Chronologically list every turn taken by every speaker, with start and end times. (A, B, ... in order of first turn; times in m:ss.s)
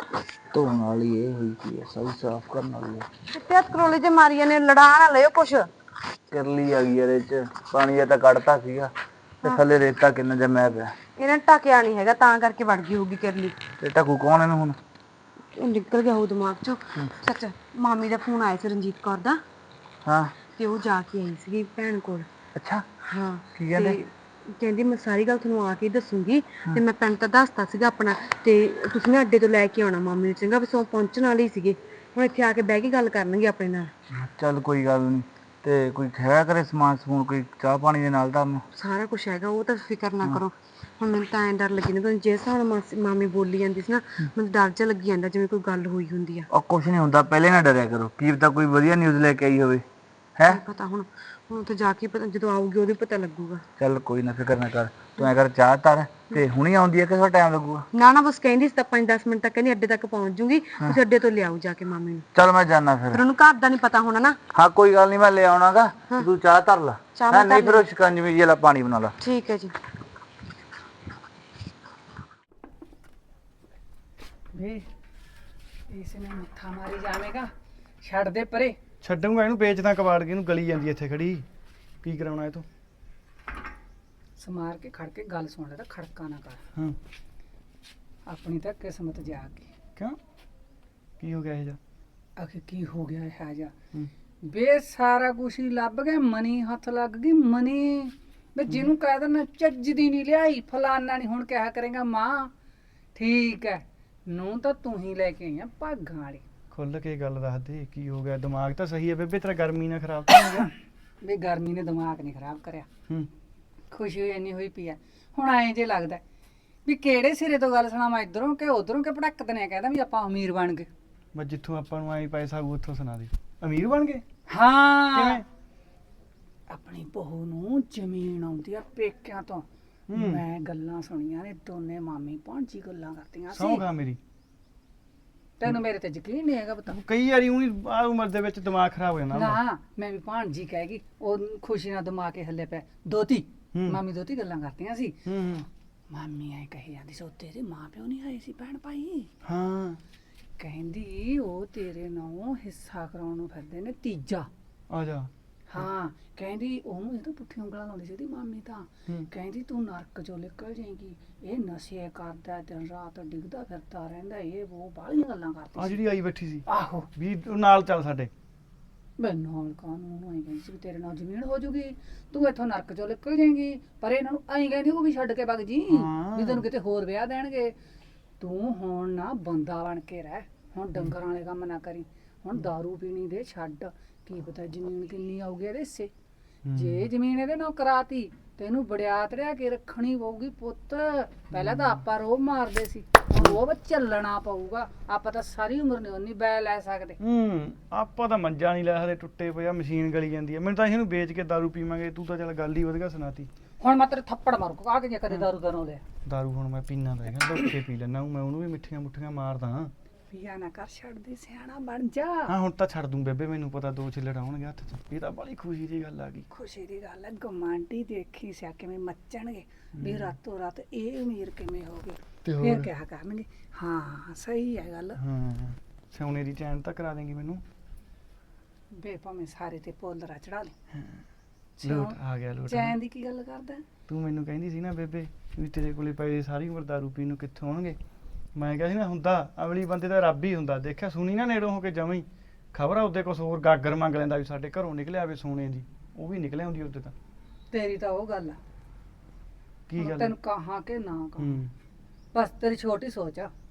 0:00.5-0:03.1 A
0:03.3-0:05.7 B
0:06.3-0:08.9 A
0:09.4-0:11.0 A
0:11.1-0:13.6 B
0:13.8-0:14.8 A
0:15.5-0:19.4 B
0:20.0-0:20.3 A
0:20.5-0:22.3 B
0:22.6-0:22.8 A
0:23.0-0:33.9 B
0:23.6-0:24.0 A
0:34.2-0:38.6 A
0:38.8-0:46.5 B
0:46.5-0:49.8 A
0:50.5-0:53.6 B
0:53.8-0:57.9 A
0:57.9-1:02.3 B
1:02.4-1:03.2 A
1:03.1-1:04.4 B
1:04.5-1:09.1 A
1:07.1-1:07.9 B
1:09.2-1:09.7 B
1:14.6-1:14.8 C
1:15.9-1:18.8 C
1:19.0-1:21.5 D
1:22.0-1:22.7 D
1:24.4-1:26.6 C
1:28.3-1:29.7 C
1:31.2-1:31.8 D
1:32.4-1:33.7 C
1:34.5-1:42.5 C
1:43.2-1:46.4 C
1:46.7-1:50.7 D
1:50.4-1:50.6 C
1:51.2-1:52.9 C
1:53.9-1:56.2 C
1:56.9-2:00.9 C
2:01.4-2:04.2 D
2:04.5-2:05.4 C
2:05.1-2:05.4 D
2:06.7-2:13.8 C
2:10.1-2:10.4 D
2:13.5-2:14.2 D
2:15.6-2:17.0 C
2:16.9-2:19.6 D
2:19.3-2:25.2 C
2:23.7-2:24.0 D
2:25.3-2:25.7 D
2:26.1-2:29.3 C
2:29.5-2:30.0 D
2:30.6-2:34.5 C
2:34.9-2:35.9 D
2:35.7-2:46.0 C
2:45.8-2:48.3 D
2:46.7-2:47.1 C
2:49.2-2:57.7 C
2:55.9-2:56.7 D
2:58.4-3:06.1 C
3:06.7-3:07.1 D
3:06.7-3:17.2 C
3:11.5-3:12.0 D
3:17.2-3:23.5 D
3:23.8-3:26.0 C
3:26.3-3:29.9 D
3:30.3-3:32.6 C
3:32.5-3:36.5 D
3:36.5-3:45.2 C
3:40.0-3:40.3 D
3:42.4-3:42.9 D
3:45.2-3:47.6 D
3:49.0-3:50.7 C
3:50.9-3:51.2 D
3:51.8-3:53.8 C
3:51.8-3:53.0 D
3:54.1-3:58.0 D
3:58.6-4:07.1 D
4:07.7-4:08.6 C
4:09.9-4:10.4 D
4:10.0-4:11.6 C
4:11.4-4:11.7 D
4:12.3-4:13.5 C